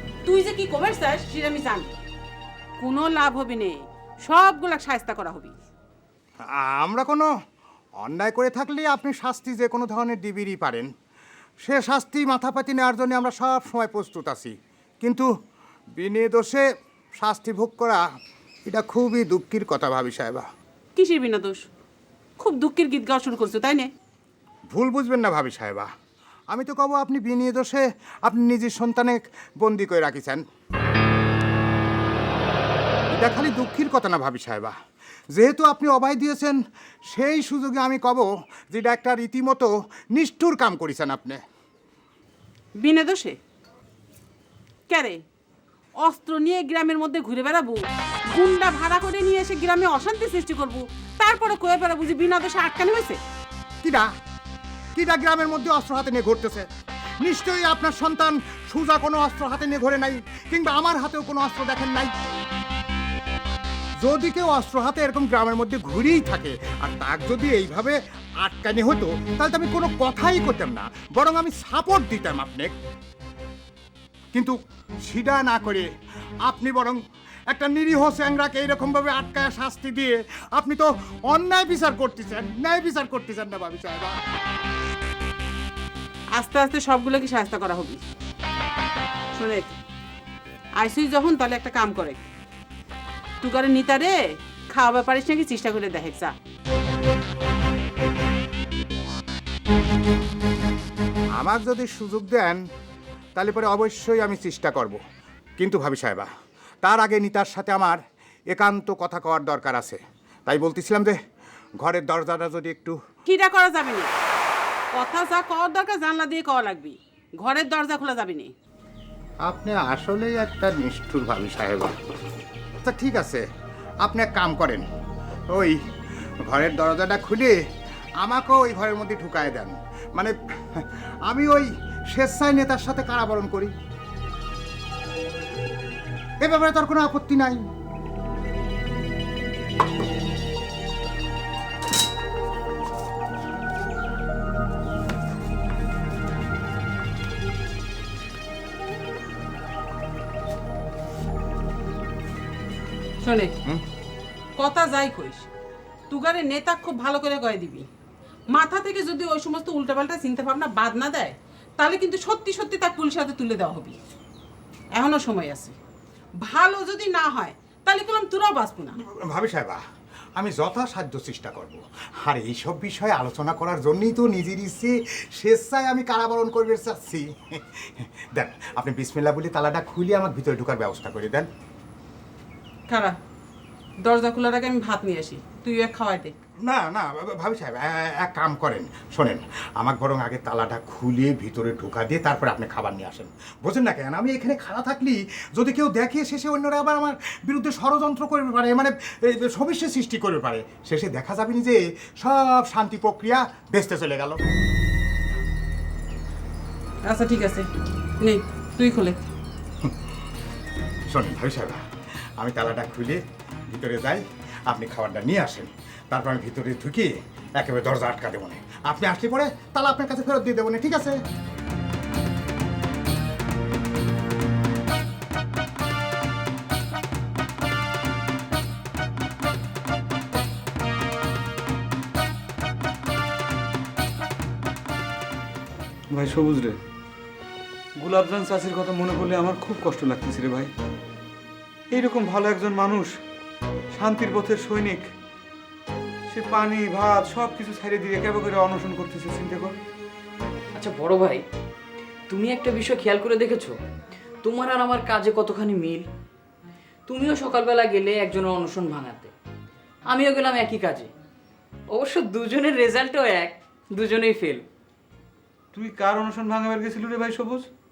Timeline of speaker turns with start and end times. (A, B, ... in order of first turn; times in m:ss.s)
0:00.3-0:01.9 A
0:02.8-0:05.5 A
0:06.4-0:07.3 B
0:08.0-0:10.9 B
0:11.6-0:15.3 B
0:16.0-0:16.6 B
0:17.2-0:18.0 B
0:18.7-0:20.5 B
0:21.0-0:21.6 A
0:22.4-0:23.9 A
0:24.7-0:25.9 B
0:26.5-0:30.4 B
0:33.1-0:34.7 B
0:35.3-0:36.6 B
0:37.1-0:41.4 B
0:42.8-0:43.4 A
0:44.9-0:45.2 A
0:46.0-0:53.2 A
0:53.8-0:54.1 B
0:55.0-0:56.7 B
0:57.2-1:02.1 B
1:04.0-1:12.7 B
1:14.3-1:15.9 B
1:16.4-1:24.2 B
1:26.4-1:28.0 A
1:29.3-1:29.8 A
1:30.8-1:32.2 A
1:33.4-1:36.4 A
1:41.4-1:42.6 B
1:43.4-1:45.0 B
1:45.6-1:46.3 B
1:46.8-1:48.0 B
1:48.5-1:51.2 B
1:51.8-1:53.0 B
1:53.2-1:54.1 A
1:54.9-1:58.5 A
1:59.4-2:01.9 B
2:02.8-2:03.4 B
2:04.0-2:04.8 B
2:05.5-2:07.6 B
2:08.2-2:13.7 B
2:16.4-2:17.6 B
2:33.2-2:33.6 A
2:34.6-2:35.5 A
2:36.1-2:37.9 A
2:38.5-2:44.0 A
2:45.0-2:45.8 A
2:46.4-2:49.0 A
2:49.0-2:49.8 B
2:50.4-3:01.5 B
3:02.9-3:03.2 A
3:04.0-3:06.4 A
3:06.6-3:24.4 B
3:27.0-3:27.7 A
3:28.2-3:29.2 A
3:31.1-3:31.8 B
3:32.4-3:41.2 B
3:56.1-3:56.8 C
3:58.0-4:00.7 C
4:01.9-4:03.1 C
4:04.0-4:05.1 C
4:06.3-4:09.8 C
4:10.8-4:11.4 D
4:12.3-4:13.8 D
4:14.4-4:16.1 D
4:17.1-4:19.3 D
4:20.1-4:21.1 D
4:21.9-4:24.7 D
4:25.7-4:27.7 C